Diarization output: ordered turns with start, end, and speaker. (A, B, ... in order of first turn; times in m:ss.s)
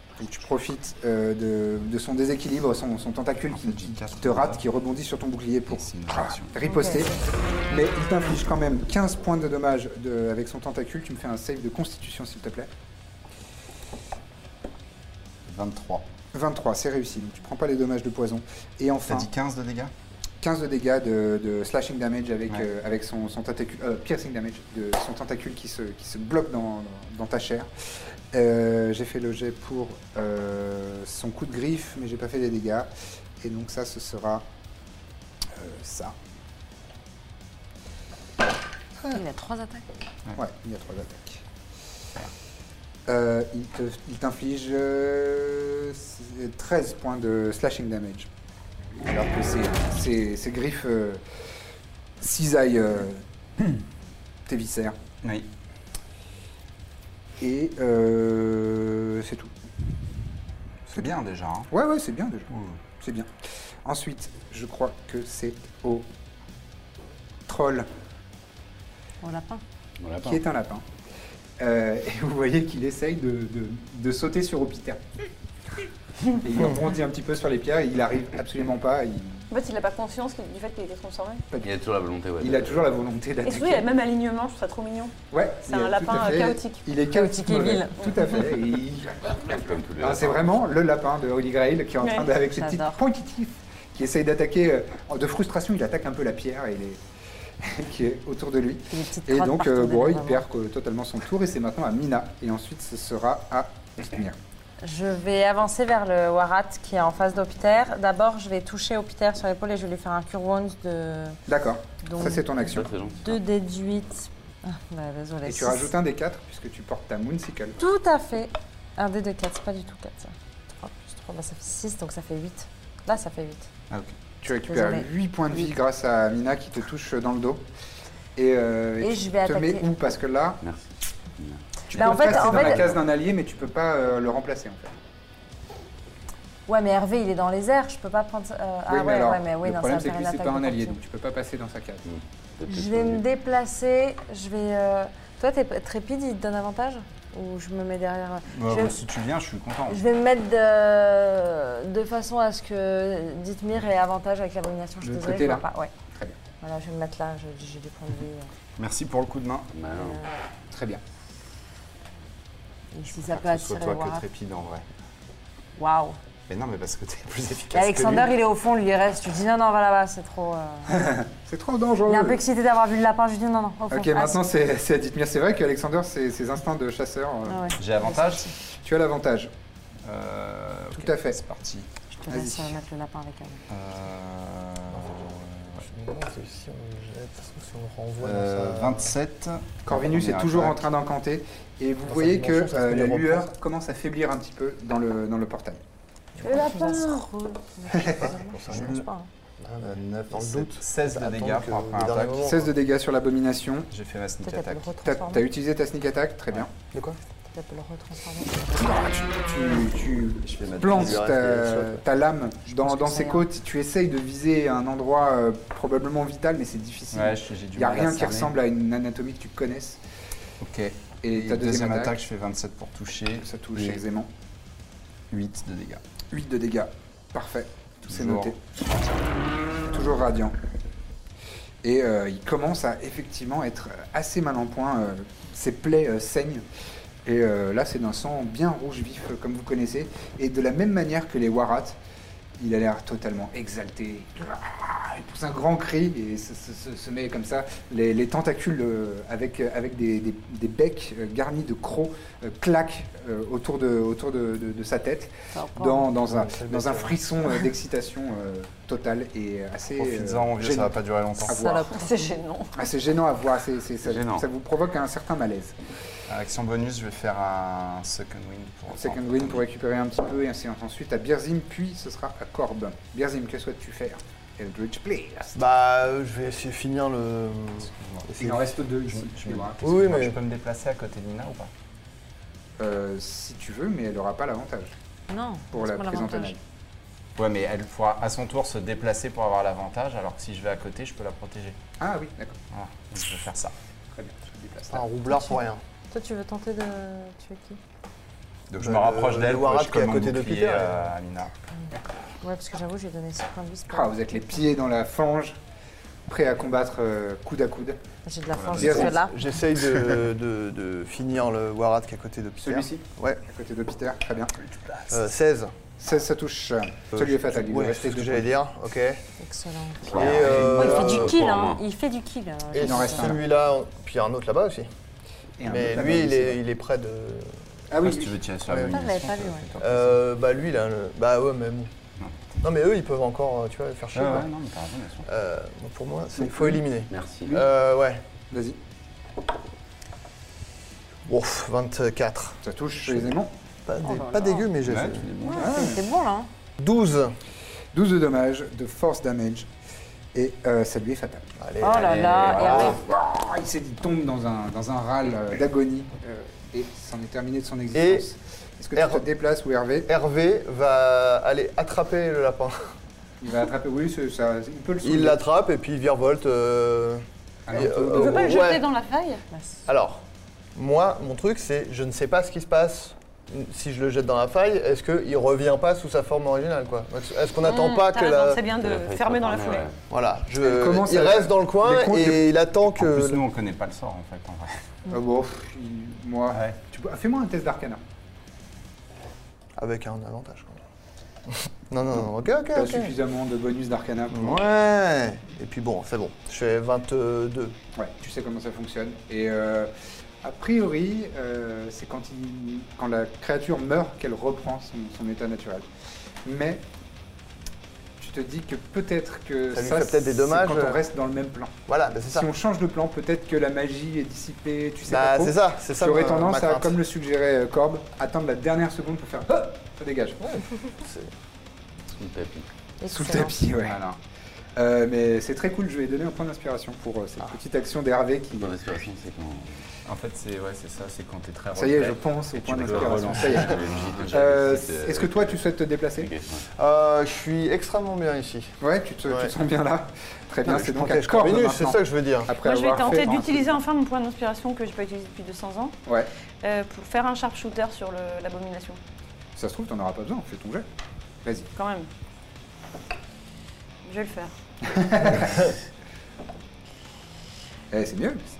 0:00.2-0:12.7 A
0:03.5-0:04.6 B
0:05.7-0:06.6 B
0:06.6-0:07.1 C
0:15.4-0:16.0 B
0:16.3-0:19.3 A
0:19.0-0:19.9 B
0:20.4-0:27.7 A
0:28.3-0:32.9 A
0:33.4-0:34.4 A
0:35.5-0:36.2 A
0:39.0-0:39.8 C
0:40.4-0:41.4 A
0:43.1-0:48.3 A
0:49.0-0:51.2 A
0:52.2-0:53.2 A
0:54.4-0:55.0 A
0:55.2-0:55.5 B
0:57.4-0:59.5 A
1:00.9-1:01.7 B
1:01.7-1:03.3 A
1:02.5-1:02.8 B
1:03.8-1:06.0 A
1:07.5-1:07.9 A
1:09.2-1:09.6 C
1:10.0-1:10.4 D
1:10.2-1:10.8 A
1:11.6-1:15.0 A
1:16.3-1:19.4 A
1:19.5-1:21.4 E
1:21.5-1:21.8 A
1:21.6-1:22.9 D
1:22.4-1:23.9 A
1:23.4-1:25.1 E
1:25.3-1:37.0 A
1:25.6-1:26.9 E
1:27.0-1:28.2 C
1:29.2-1:30.6 D
1:32.0-1:32.3 E
1:32.4-1:33.0 C
1:37.6-1:44.4 A
1:38.9-1:40.4 C
1:44.8-1:51.4 C
1:51.5-1:52.9 A
1:52.0-1:55.9 C
1:52.6-1:53.4 D
1:55.4-1:57.8 A
1:57.8-2:03.7 C
2:04.4-2:07.6 A
2:04.7-2:05.7 C
2:08.4-2:10.6 A
2:09.0-2:09.9 C
2:10.6-2:11.6 D
2:11.9-2:14.9 A
2:11.9-2:12.9 C
2:12.2-2:12.6 B
2:16.7-2:21.0 C
2:18.9-2:22.0 A
2:22.0-2:23.2 D
2:22.7-2:29.0 C
2:28.5-2:30.0 B
2:29.9-2:35.9 C
2:35.0-2:36.4 A
2:36.6-2:38.5 C
2:38.8-2:39.7 B
2:39.7-2:40.2 D
2:40.0-2:40.3 C
2:40.7-2:41.0 A
2:42.9-2:44.2 C
2:43.1-2:44.8 B
2:45.8-2:46.2 C
2:46.5-2:48.3 B
2:47.7-2:51.0 C
2:50.9-2:52.4 A
2:52.1-2:54.4 C
2:53.9-2:57.7 A
2:57.4-2:58.5 C
2:57.8-2:58.5 B
2:58.6-2:59.5 A
3:00.0-3:01.9 B
3:01.0-3:01.4 A
3:02.1-3:03.6 C
3:02.3-3:02.8 A
3:03.7-3:05.8 B
3:04.9-3:05.2 F
3:05.7-3:09.1 F
3:08.2-3:10.9 B
3:09.8-3:15.8 A
3:12.0-3:13.5 F
3:16.4-3:17.3 E
3:16.4-3:19.3 C
3:17.9-3:18.2 A
3:18.2-3:19.0 F
3:18.7-3:19.0 B
3:19.6-3:22.7 F
3:19.8-3:22.5 B
3:22.4-3:23.9 A
3:23.9-3:24.9 B
3:24.4-3:25.4 C
3:25.0-3:26.7 A
3:26.9-3:27.2 F
3:27.5-3:29.0 C
3:28.8-3:40.0 A
3:30.4-3:31.2 B
3:30.8-3:32.0 F
3:32.7-3:33.4 C
3:37.1-3:38.6 B
3:40.6-3:44.0 B
3:41.2-3:42.2 A
3:43.4-3:44.3 A
3:45.3-3:46.0 B
3:46.3-3:48.6 A
3:48.1-3:48.5 B
3:49.9-3:50.6 A
3:51.8-3:56.6 A
3:57.2-4:02.0 A
4:02.6-4:21.9 A
4:15.5-4:16.1 C
4:16.2-4:17.2 F
4:20.0-4:21.5 B
4:21.5-4:22.1 C
4:21.8-4:22.8 E
4:22.8-4:25.8 A
4:24.0-4:24.4 D
4:26.3-4:29.6 B
4:28.9-4:35.6 A
4:35.5-4:37.9 F
4:38.0-4:38.6 B
4:38.3-4:39.9 A
4:39.1-4:41.7 B
4:39.8-4:40.4 F
4:42.8-4:45.0 A
4:45.3-4:46.5 C
4:45.7-4:46.6 A
4:47.4-4:51.8 B
4:52.0-4:52.6 A
4:52.7-4:53.7 B
4:54.1-4:55.0 A
4:54.9-4:55.8 F
4:56.1-4:57.8 C
4:58.7-5:01.5 B
4:58.8-5:01.1 F
5:01.8-5:04.6 C
5:03.9-5:05.6 A
5:06.3-5:08.0 A
5:08.2-5:09.3 C
5:08.5-5:09.1 B
5:08.7-5:09.1 A
5:08.9-5:13.4 F
5:12.6-5:14.5 A
5:14.6-5:15.1 B
5:15.1-5:15.7 F
5:16.0-5:18.5 A
5:17.2-5:19.2 F
5:19.4-5:23.4 C
5:20.1-5:21.8 D
5:20.1-5:21.4 F
5:20.2-5:21.0 B
5:22.7-5:24.9 F
5:22.8-5:23.4 A
5:25.6-5:26.6 A
5:25.6-5:27.6 F
5:27.9-5:28.4 A
5:28.0-5:30.2 B
5:28.8-5:29.7 C
5:29.8-5:31.9 F
5:32.2-5:32.6 B
5:32.6-5:34.5 F
5:34.1-5:35.3 B
5:35.2-5:38.2 F
5:36.4-5:36.8 A
5:37.1-5:37.5 D
5:38.5-5:38.8 A
5:41.2-5:43.3 F
5:42.6-5:43.5 A
5:43.8-5:45.3 F
5:44.0-5:44.7 C
5:44.8-5:45.8 B
5:45.4-5:46.5 C
5:45.6-5:46.0 A
5:46.8-5:47.4 F
5:47.9-5:49.7 A
5:50.3-5:51.4 A
5:51.6-5:52.7 F
5:51.8-5:53.0 C
5:52.2-5:52.8 B
5:52.2-6:00.1 A
5:57.9-5:58.2 F
5:58.9-5:59.3 F
6:00.1-6:02.9 F
6:03.4-6:05.4 A
6:05.0-6:08.9 F
6:07.7-6:08.6 A
6:08.1-6:09.4 E
6:09.5-6:09.8 C
6:09.8-6:18.6 F
6:17.6-6:19.9 E
6:18.7-6:20.0 D
6:20.1-6:23.4 F
6:20.6-6:22.5 A
6:22.9-6:24.8 B
6:25.1-6:28.0 A
6:26.5-6:26.8 B
6:29.8-6:30.8 F
6:31.5-6:33.2 F
6:32.7-6:34.6 A
6:34.3-6:37.8 F
6:38.0-6:45.8 A
6:46.4-6:46.8 A
6:48.2-6:51.7 A
6:49.7-6:51.0 F
6:51.9-6:52.5 F
6:52.3-7:00.6 A
6:55.0-6:57.0 F
7:00.9-7:01.3 F
7:02.2-7:02.7 D
7:03.0-7:03.6 C
7:03.1-7:04.2 A
7:04.8-7:09.0 A
7:08.6-7:09.8 D
7:10.0-7:13.8 B
7:11.7-7:16.3 A
7:12.8-7:16.7 D
7:16.8-7:19.5 F
7:18.8-7:23.8 A
7:20.6-7:22.5 F
7:22.6-7:26.0 E
7:26.6-7:29.0 E
7:29.6-7:30.8 A
7:31.4-7:31.7 A
7:31.7-7:32.1 E
7:34.0-7:34.5 E
7:34.8-7:35.7 A
7:37.9-7:38.4 A